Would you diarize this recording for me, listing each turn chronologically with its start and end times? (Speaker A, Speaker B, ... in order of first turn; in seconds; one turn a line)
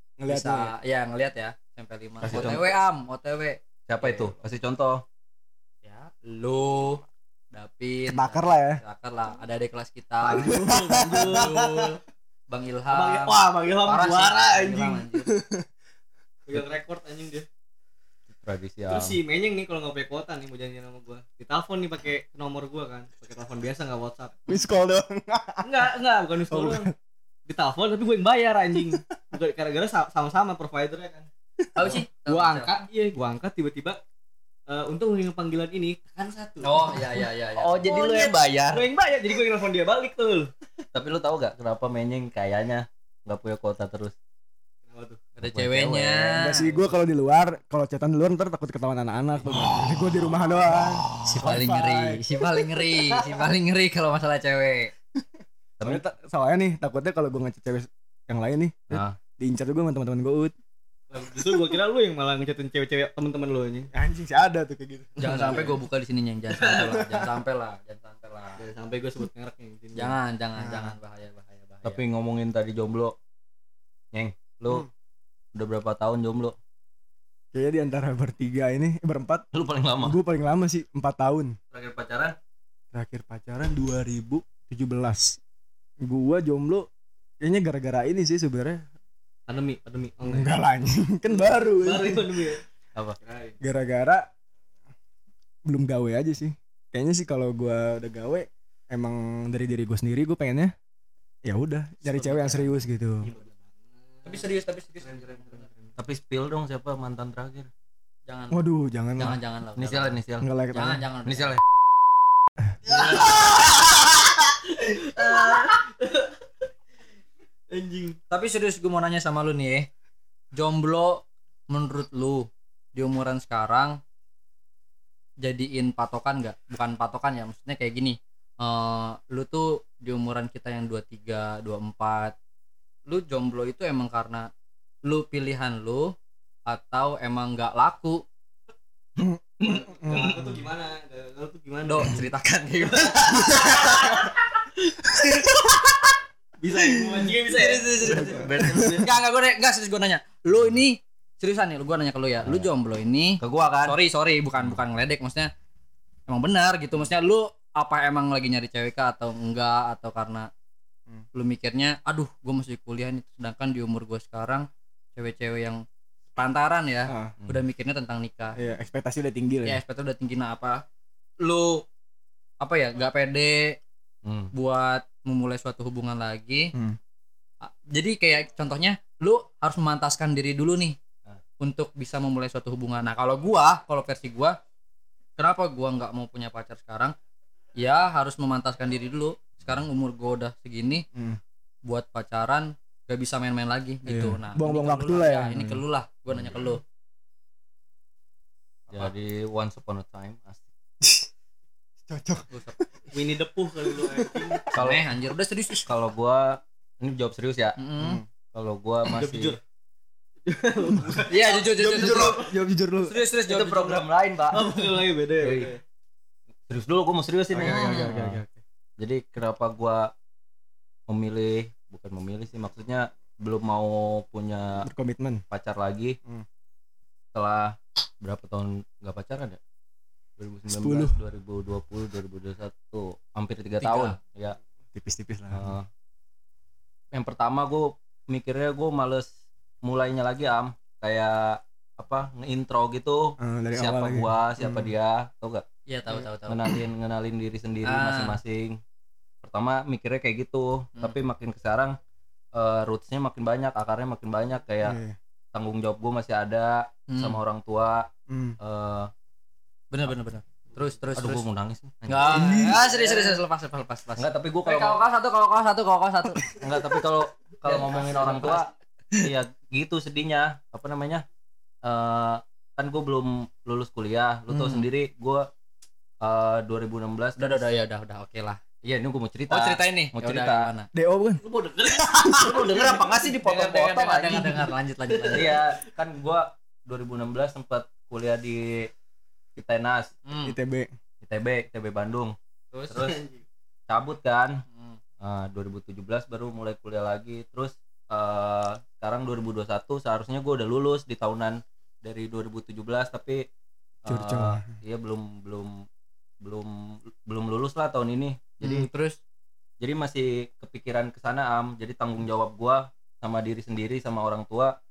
Speaker A: 0.2-0.7
Speaker B: 0.3-4.3
Speaker C: 2.2-2.7
Speaker C: 3.9-5.0
Speaker B: 5.8-15.3
Speaker A: 8.1-8.8
Speaker D: 10.2-11.9
Speaker A: 10.3-11.6
Speaker D: 12.9-15.0
Speaker A: 15.2-15.7
Speaker D: 16.4-17.5
Speaker C: 18.3-19.2
Speaker D: 18.9-24.6
Speaker A: 24.5-25.9
Speaker D: 25.6-26.9
Speaker A: 26.5-26.9
Speaker D: 27.4-31.3
Speaker A: 28.7-29.1
Speaker B: 31.7-32.8
Speaker D: 31.9-34.0
Speaker D: 34.7-37.3
Speaker B: 36.6-37.9
Speaker C: 37.6-38.8
Speaker D: 38.7-40.5
Speaker C: 40.9-44.1
Speaker D: 44.9-45.2
Speaker B: 45.4-46.8
Speaker C: 45.4-46.4
Speaker A: 46.3-52.2
Speaker B: 51.2-54.9
Speaker A: 55.8-60.5
Speaker C: 58.9-59.1
Speaker D: 61.1-63.9
Speaker A: 63.9-65.7
Speaker B: 65.2-68.6
Speaker D: 65.2-65.8
Speaker D: 66.5-67.3
Speaker D: 68.6-70.1
Speaker B: 69.9-72.0
Speaker A: 70.6-71.0
Speaker C: 71.8-73.2
Speaker C: 74.1-74.9
Speaker C: 75.5-76.5
Speaker A: 77.5-79.4
Speaker C: 79.5-80.2
Speaker A: 80.0-81.6
Speaker C: 81.7-82.3
Speaker A: 82.9-85.4
Speaker A: 86.0-86.9
Speaker A: 87.4-88.8
Speaker D: 89.5-90.5
Speaker A: 90.2-92.5
Speaker D: 91.3-92.6
Speaker D: 93.2-93.6
Speaker A: 93.6-94.2
Speaker A: 95.7-100.7
Speaker A: 101.4-103.3
Speaker B: 102.1-102.6
Speaker D: 103.2-104.5
Speaker B: 104.2-105.7
Speaker D: 105.0-105.9
Speaker C: 106.0-107.7
Speaker B: 108.3-108.6
Speaker A: 108.5-109.4
Speaker B: 109.2-110.2
Speaker C: 109.8-110.5
Speaker A: 110.4-111.0
Speaker B: 110.7-111.5
Speaker C: 111.2-111.6
Speaker D: 112.8-116.3
Speaker B: 112.9-113.5
Speaker D: 117.7-118.2
Speaker B: 118.3-119.9
Speaker B: 120.5-124.0
Speaker B: 125.4-132.3
Speaker B: 133.1-134.5
Speaker B: 135.0-136.1
Speaker B: 136.7-138.2
Speaker A: 139.2-139.4
Speaker D: 139.6-142.3
Speaker A: 140.0-140.7
Speaker B: 141.8-144.0
Speaker D: 142.9-144.3
Speaker D: 146.6-147.9
Speaker B: 147.4-155.5
Speaker A: 148.1-149.0
Speaker C: 148.1-149.1
Speaker C: 153.4-154.0
Speaker B: 156.3-160.5
Speaker B: 161.3-165.8
Speaker B: 166.3-168.6
Speaker A: 167.1-167.3
Speaker A: 168.6-169.8
Speaker B: 169.6-170.8
Speaker B: 171.4-171.8
Speaker B: 172.6-173.8
Speaker C: 174.2-174.5
Speaker B: 174.5-176.7
Speaker B: 177.6-181.0
Speaker B: 181.6-184.6
Speaker B: 185.4-187.1
Speaker B: 187.8-191.0
Speaker B: 191.8-196.8
Speaker A: 194.0-195.8
Speaker C: 196.3-196.7
Speaker C: 198.9-200.7
Speaker A: 201.0-201.3
Speaker A: 202.1-202.8
Speaker B: 202.5-202.8
Speaker D: 203.1-204.7
Speaker A: 203.9-204.6
Speaker C: 204.7-205.1
Speaker B: 204.7-205.9
Speaker C: 205.8-207.8
Speaker B: 207.8-208.2
Speaker A: 208.0-208.2
Speaker C: 208.5-209.6
Speaker D: 209.1-209.6
Speaker D: 210.4-212.5
Speaker B: 211.3-212.4
Speaker C: 211.8-212.3
Speaker A: 211.9-213.2
Speaker B: 213.0-214.0
Speaker C: 213.5-215.7
Speaker D: 214.5-215.8
Speaker C: 216.7-218.4
Speaker A: 217.5-218.4
Speaker D: 217.6-218.5
Speaker C: 219.0-220.1
Speaker C: 221.1-224.9
Speaker A: 224.8-225.4
Speaker C: 225.5-226.2
Speaker C: 227.3-229.6
Speaker C: 230.4-234.6
Speaker A: 230.7-231.2
Speaker B: 233.8-234.2
Speaker A: 234.9-235.7
Speaker C: 235.5-235.8
Speaker C: 237.1-239.3
Speaker C: 239.8-245.6
Speaker A: 243.4-244.9
Speaker B: 245.9-246.7
Speaker C: 246.5-248.8
Speaker B: 247.8-248.4
Speaker C: 249.4-252.0
Speaker C: 252.5-255.0
Speaker A: 254.8-255.2
Speaker C: 255.5-258.1
Speaker B: 257.1-257.4
Speaker A: 258.3-258.6
Speaker C: 258.6-259.1
Speaker B: 259.9-261.4
Speaker C: 261.1-263.2
Speaker B: 262.1-266.4
Speaker A: 262.2-263.0
Speaker C: 264.2-265.0
Speaker C: 266.5-271.2
Speaker B: 267.6-268.6
Speaker C: 271.8-275.5
Speaker B: 274.5-274.8
Speaker C: 276.2-277.6
Speaker B: 277.4-278.6
Speaker C: 278.8-280.7
Speaker B: 279.5-280.9
Speaker A: 280.9-281.4
Speaker D: 281.4-283.0
Speaker A: 282.0-282.4
Speaker C: 282.3-284.7
Speaker B: 283.2-285.5
Speaker D: 285.1-285.6
Speaker C: 285.3-288.9
Speaker C: 289.6-290.1
Speaker B: 290.2-290.6
Speaker A: 290.4-290.9
Speaker C: 291.2-292.3
Speaker B: 292.7-293.0
Speaker C: 292.9-293.2
Speaker D: 292.9-293.4
Speaker C: 293.9-294.6
Speaker B: 294.7-295.0
Speaker C: 295.2-303.4
Speaker C: 304.0-305.8
Speaker A: 304.1-304.7
Speaker C: 306.4-308.5
Speaker B: 308.6-309.2
Speaker C: 309.8-314.7